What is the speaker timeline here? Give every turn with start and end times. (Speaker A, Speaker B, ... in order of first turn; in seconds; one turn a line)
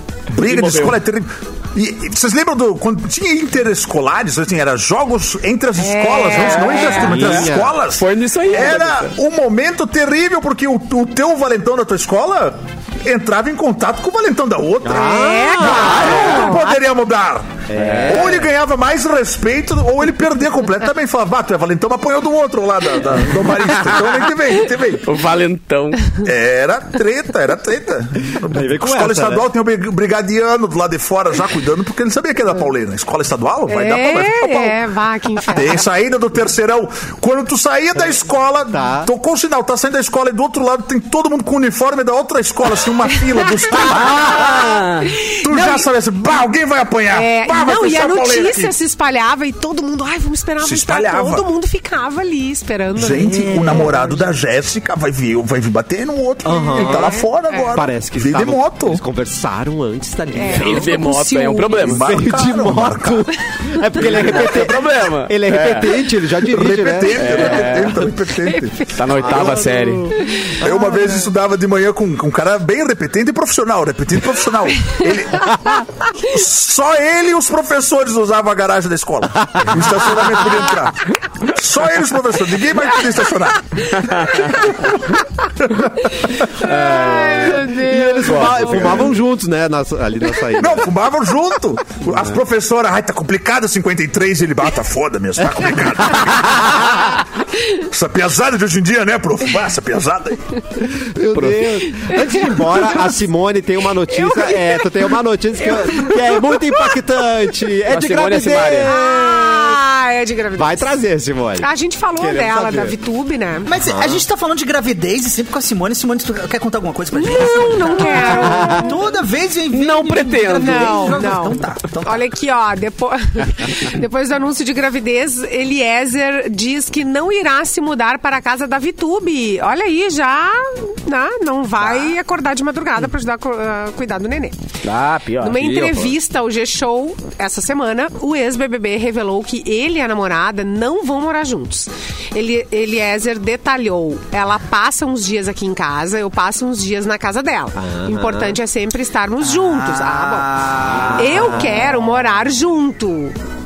Speaker A: 0.3-25.1
Speaker B: 0.4-1.0
Speaker C: 5.8-7.2
Speaker B: 6.4-9.1
Speaker D: 6.9-7.8
Speaker D: 14.8-16.5
Speaker C: 14.9-16.6
Speaker B: 16.1-16.4
Speaker D: 17.7-18.5
Speaker B: 17.7-18.3
Speaker B: 25.0-26.2
Speaker A: 26.1-34.8
Speaker D: 28.4-29.4
Speaker C: 33.7-35.8
Speaker A: 35.4-44.8
Speaker D: 38.7-39.1
Speaker C: 43.1-45.9
Speaker B: 43.8-45.1
Speaker A: 45.4-48.7
Speaker C: 47.1-54.3
Speaker A: 50.6-51.5
Speaker A: 52.9-59.0
Speaker D: 53.3-53.9
Speaker D: 56.4-57.2
Speaker C: 56.6-57.7
Speaker D: 57.7-61.0
Speaker C: 60.3-62.0
Speaker B: 60.5-62.0
Speaker A: 61.8-63.3
Speaker D: 61.9-67.7
Speaker B: 64.0-65.9
Speaker A: 64.1-64.5
Speaker A: 66.4-84.9
Speaker B: 67.1-68.1
Speaker B: 68.9-70.1
Speaker D: 69.2-69.9
Speaker C: 70.2-70.8
Speaker D: 79.5-80.1
Speaker A: 85.6-86.4
Speaker C: 86.4-88.8
Speaker B: 86.7-87.5
Speaker D: 87.4-90.9
Speaker B: 88.2-89.0
Speaker A: 90.6-100.4
Speaker D: 100.8-109.8
Speaker B: 101.3-101.7
Speaker C: 101.9-103.1
Speaker C: 104.1-105.1
Speaker C: 105.6-106.8
Speaker B: 107.9-108.9
Speaker C: 108.9-110.9
Speaker D: 110.5-113.0
Speaker C: 111.6-113.7
Speaker E: 113.7-122.2
Speaker D: 113.8-114.2
Speaker C: 117.1-119.0
Speaker D: 118.3-118.9
Speaker B: 119.7-121.2
Speaker C: 120.2-134.6
Speaker E: 131.8-132.1
Speaker B: 134.8-136.0
Speaker C: 135.4-150.5
Speaker D: 135.6-136.1
Speaker D: 147.7-148.6
Speaker E: 149.4-151.9
Speaker D: 150.8-152.1
Speaker C: 151.1-153.3